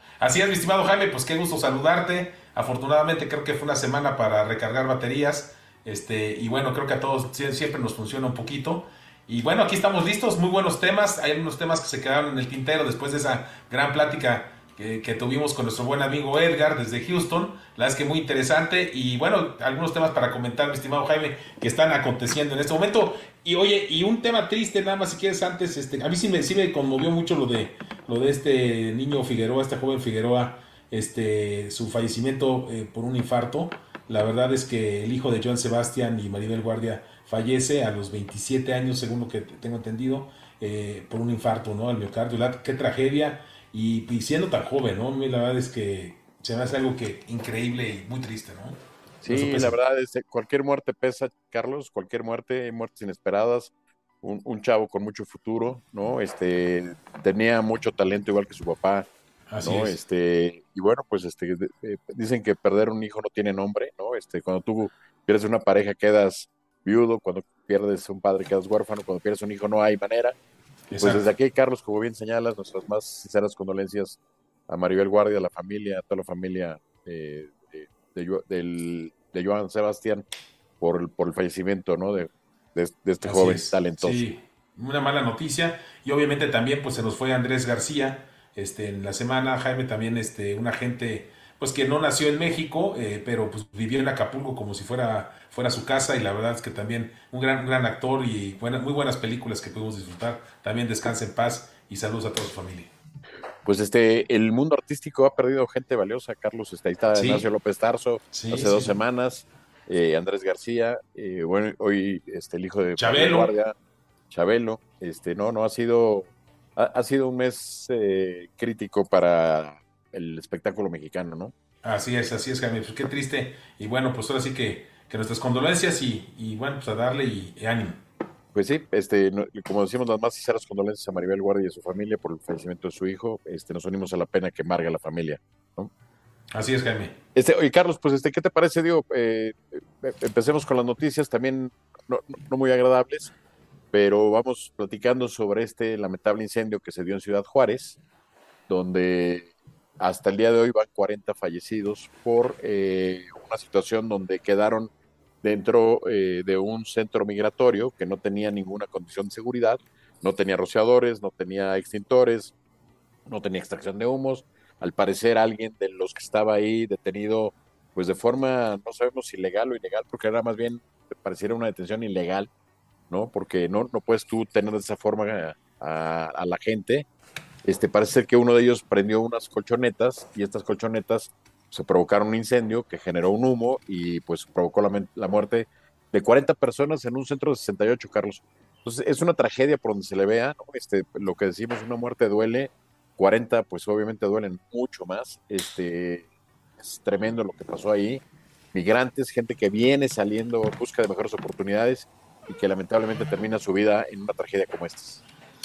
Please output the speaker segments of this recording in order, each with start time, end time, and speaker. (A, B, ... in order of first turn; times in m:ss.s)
0:00.2-0:49.8 A
0:49.2-0:59.1 B
0:59.5-1:00.0 A
0:59.6-1:10.4 B
1:10.9-1:20.2 B
1:10.9-1:11.3 A
1:20.8-1:24.2 B
1:23.2-1:42.9 A
1:43.6-1:53.8 B
1:47.1-1:47.4 A
1:48.3-1:48.9 A
1:53.0-1:53.5 A
1:54.3-2:01.5 B
2:01.8-2:08.0 A
2:08.5-2:15.9 B
2:16.5-2:17.2 A
2:17.4-2:23.3 B
2:23.9-2:28.0 B
2:28.7-2:34.9 B
2:35.4-2:42.5 B
2:43.3-2:52.5 B
2:53.1-2:57.1 B
2:57.6-3:16.3 B
3:16.8-3:18.2 B
3:18.7-3:25.2 B